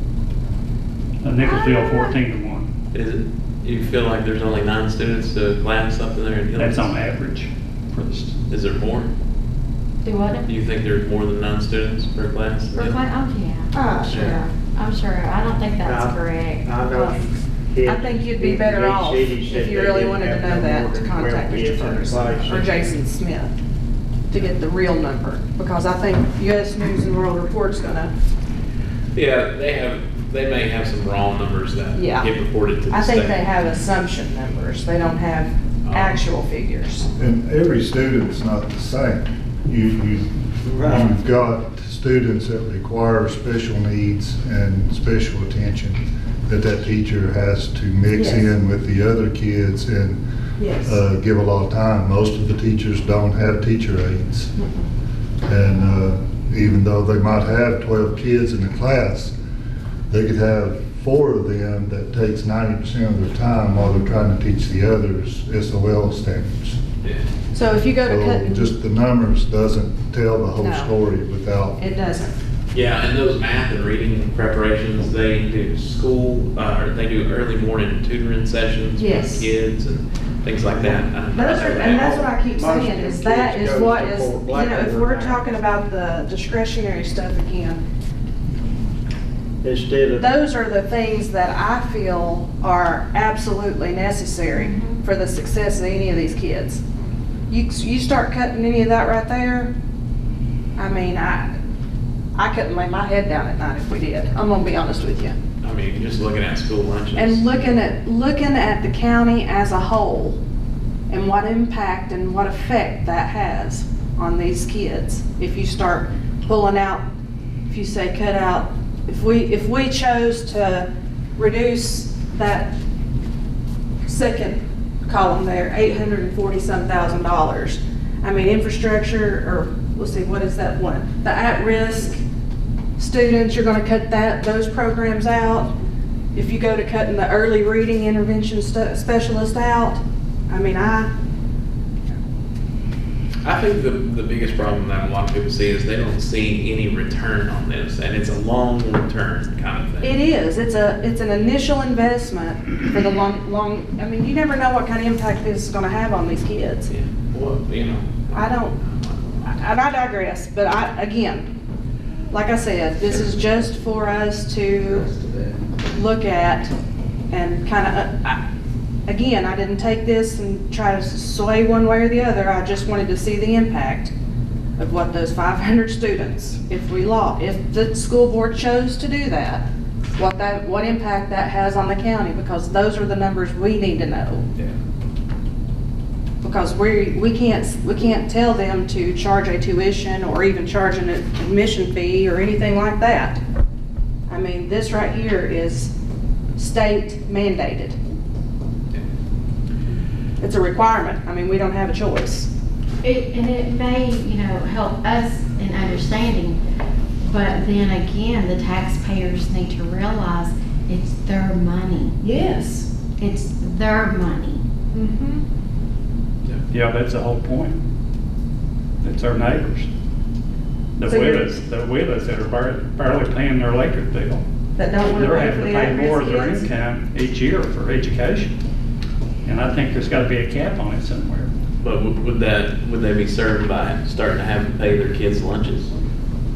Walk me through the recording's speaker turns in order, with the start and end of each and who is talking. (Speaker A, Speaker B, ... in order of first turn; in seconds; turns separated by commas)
Speaker A: 1.2-2.7, Speaker B: 1.4-2.1, Speaker C: 2.9-6.9, Speaker A: 6.5-8.4, Speaker C: 8.5-9.1, Speaker B: 10.0-10.4, Speaker C: 10.4-13.0, Speaker B: 12.7-16.6, Speaker D: 13.7-14.5, Speaker C: 14.1-14.4, Speaker E: 15.8-22.8, Speaker D: 16.9-17.2, Speaker D: 17.9-23.5, Speaker D: 24.3-28.1, Speaker C: 29.1-33.4, Speaker D: 31.9-32.3, Speaker D: 32.9-37.1, Speaker C: 35.8-36.2, Speaker F: 37.1-50.2, Speaker E: 40.7-41.1, Speaker D: 48.1-48.5, Speaker D: 50.6-51.0, Speaker F: 50.8-54.5, Speaker D: 54.6-54.9, Speaker F: 55.5-59.3, Speaker F: 60.1-66.8, Speaker D: 67.5-68.7, Speaker F: 68.0-71.8, Speaker D: 70.6-70.9, Speaker D: 71.8-72.3, Speaker C: 72.7-82.2, Speaker D: 79.0-79.5, Speaker E: 80.7-81.0, Speaker D: 81.3-87.8, Speaker E: 81.8-85.4, Speaker E: 89.6-90.3, Speaker D: 90.2-96.8, Speaker B: 94.5-95.0, Speaker D: 97.5-99.7, Speaker D: 100.8-101.5, Speaker D: 102.3-105.3, Speaker C: 105.6-107.5, Speaker D: 107.1-110.4, Speaker D: 111.1-117.0, Speaker D: 117.7-122.7, Speaker D: 124.0-132.2, Speaker D: 133.0-135.7, Speaker D: 136.3-141.1, Speaker C: 143.4-150.2, Speaker D: 150.0-156.9, Speaker C: 156.9-159.6, Speaker D: 158.3-158.7, Speaker D: 159.4-161.5, Speaker D: 162.3-165.1, Speaker C: 165.0-165.6, Speaker D: 165.9-166.7, Speaker D: 167.3-168.4, Speaker D: 169.1-174.1, Speaker D: 174.8-184.5, Speaker D: 186.4-193.4, Speaker D: 194.3-195.9, Speaker D: 196.6-198.0, Speaker D: 200.4-202.5, Speaker B: 203.0-206.6, Speaker B: 207.2-212.2, Speaker D: 212.2-212.9, Speaker B: 213.2-214.6, Speaker D: 214.9-215.4, Speaker A: 216.7-217.8, Speaker A: 219.0-219.9, Speaker A: 221.0-224.4, Speaker D: 221.1-221.5, Speaker D: 224.8-226.7, Speaker A: 225.1-228.5, Speaker A: 229.4-231.5, Speaker C: 231.8-235.9